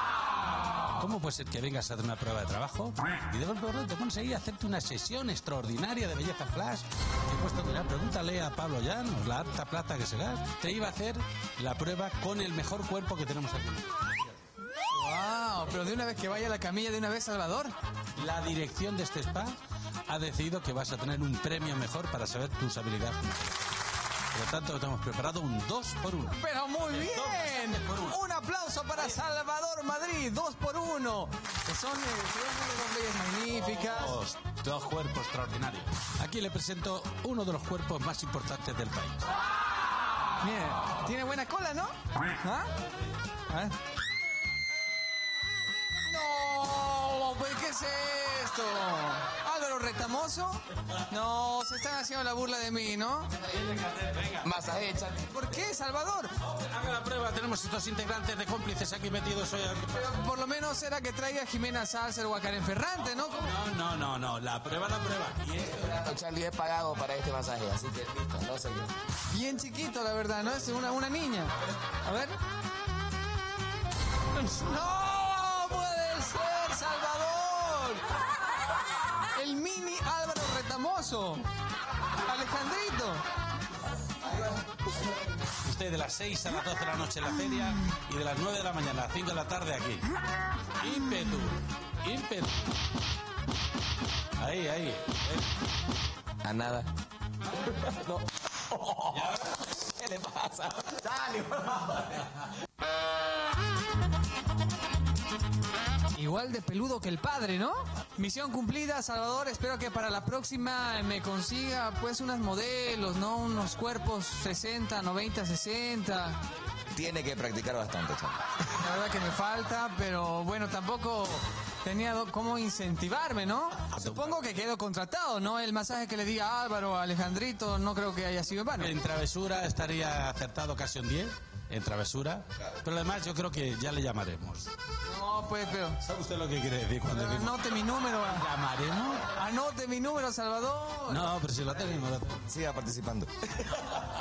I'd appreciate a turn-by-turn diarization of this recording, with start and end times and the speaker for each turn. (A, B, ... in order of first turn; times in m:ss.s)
0:01.0-0:14.3 A
0:14.9-0:17.7 B
0:18.2-0:19.6 A
0:20.1-0:23.7 A
0:24.3-0:28.2 A
0:26.2-0:34.1 B
0:33.6-0:39.3 A
0:40.4-0:42.7 B
0:43.5-0:43.8 B
0:46.0-0:53.3 B
0:53.4-0:54.5 A
0:54.4-0:55.3 C
0:55.3-0:56.3 B
0:56.4-1:00.1 A
0:59.9-1:03.5 B
1:03.3-1:06.0 A
1:05.7-1:08.9 C
1:09.3-1:12.4 B
1:14.3-1:18.1 B
1:19.3-1:21.4 B
1:22.2-1:23.2 B
1:25.6-1:30.1 A
1:30.8-1:32.8 A
1:34.4-1:35.4 A
1:36.4-1:36.9 C
1:37.6-1:42.2 C
1:46.1-1:56.4 B
1:56.9-1:58.4 C
1:58.7-2:08.9 B
2:03.9-2:04.5 A
2:08.8-2:14.7 A
2:15.0-2:16.0 B
2:16.0-2:19.3 A
2:17.1-2:18.4 B
2:19.3-2:21.2 B
2:21.1-2:22.5 A
2:22.7-2:23.6 C